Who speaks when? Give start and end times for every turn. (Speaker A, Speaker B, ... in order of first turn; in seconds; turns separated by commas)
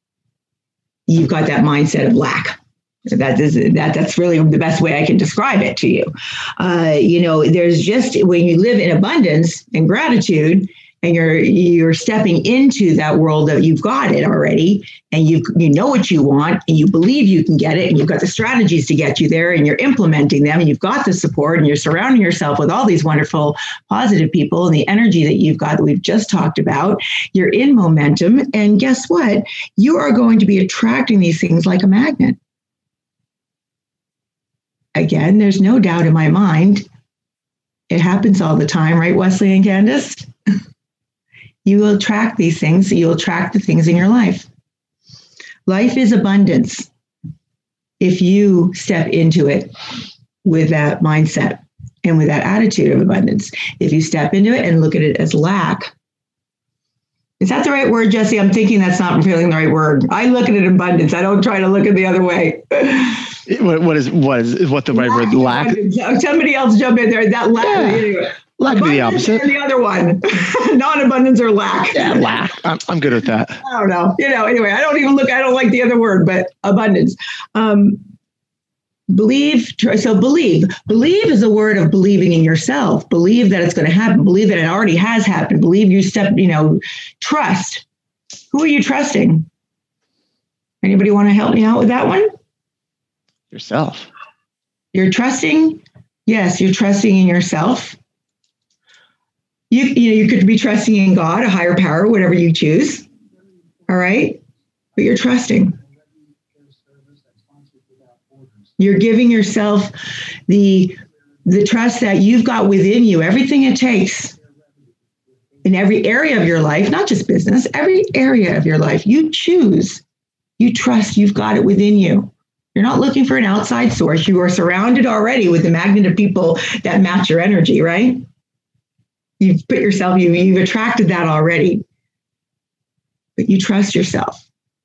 Speaker A: 1.1-32.4, Speaker A: 34.9-36.9, Speaker A: 37.9-40.3, Speaker A: 41.6-44.5, Speaker A: 45.7-46.9, Speaker A: 48.0-49.7, Speaker A: 50.4-55.9, Speaker A: 57.4-63.4, Speaker B: 63.5-65.8, Speaker A: 64.9-72.3, Speaker B: 67.6-69.5, Speaker B: 71.9-73.6, Speaker A: 73.6-78.0, Speaker A: 79.1-87.8, Speaker A: 88.5-89.5, Speaker A: 90.8-92.3, Speaker B: 93.5-94.1, Speaker A: 94.9-98.0, Speaker A: 99.7-103.0, Speaker A: 103.9-104.4, Speaker A: 105.0-105.8, Speaker A: 108.8-109.9, Speaker A: 110.5-114.3, Speaker A: 115.6-120.0, Speaker A: 120.6-128.2, Speaker A: 129.4-131.8, Speaker A: 133.4-134.4